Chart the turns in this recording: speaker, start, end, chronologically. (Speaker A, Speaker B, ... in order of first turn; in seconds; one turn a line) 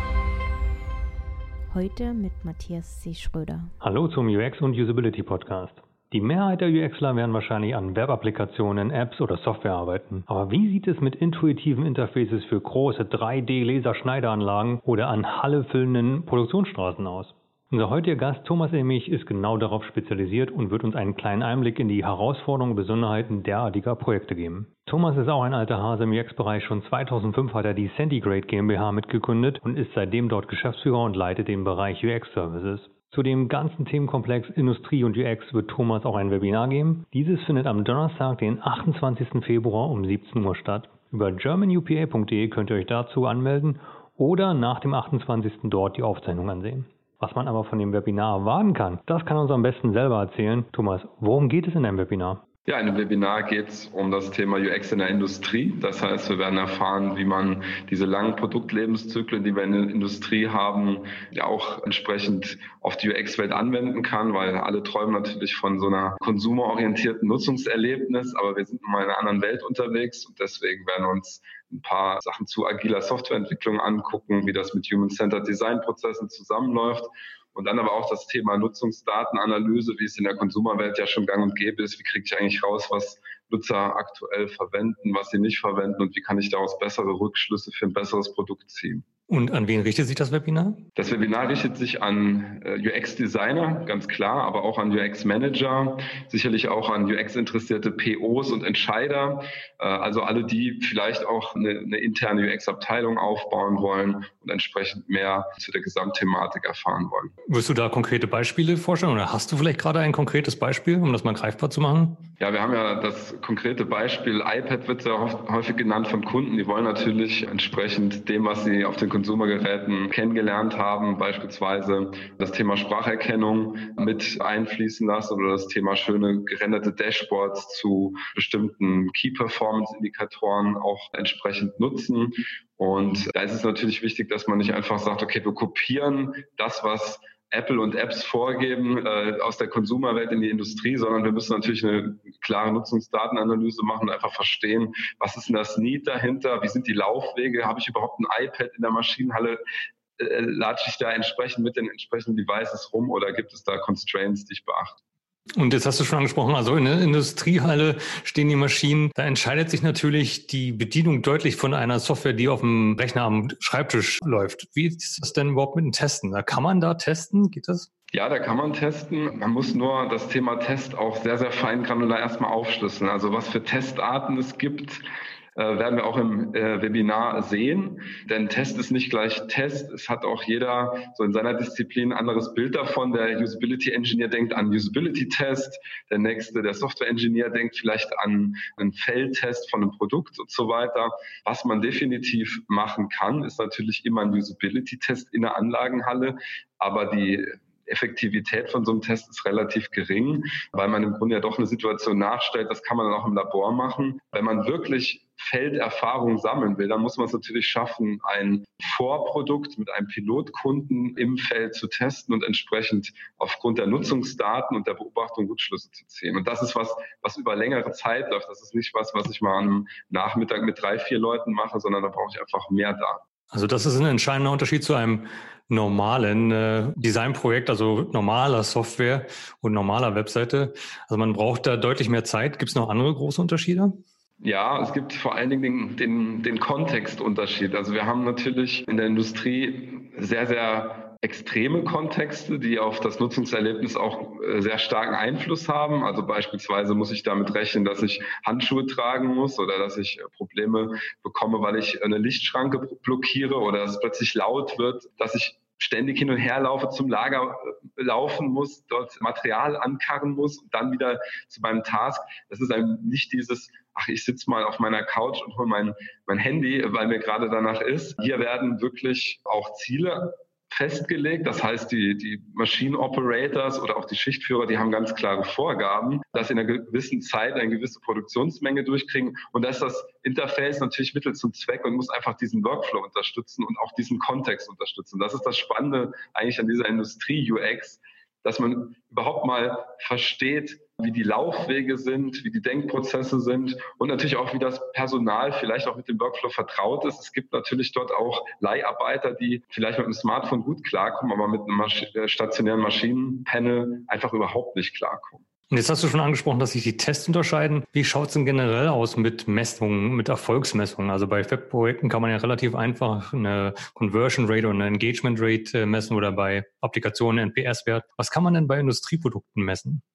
Speaker A: 1.7-3.7
Speaker B: 3.8-52.4
Speaker C: 52.7-89.0
Speaker B: 89.3-90.8
Speaker C: 91.0-107.3
Speaker B: 107.5-112.2
Speaker C: 112.4-149.6
Speaker C: 150.2-155.0
Speaker B: 155.6-167.9
Speaker C: 168.1-175.0
Speaker C: 175.6-223.2
Speaker B: 223.5-233.9
Speaker C: 234.4-305.4
Speaker B: 305.7-320.0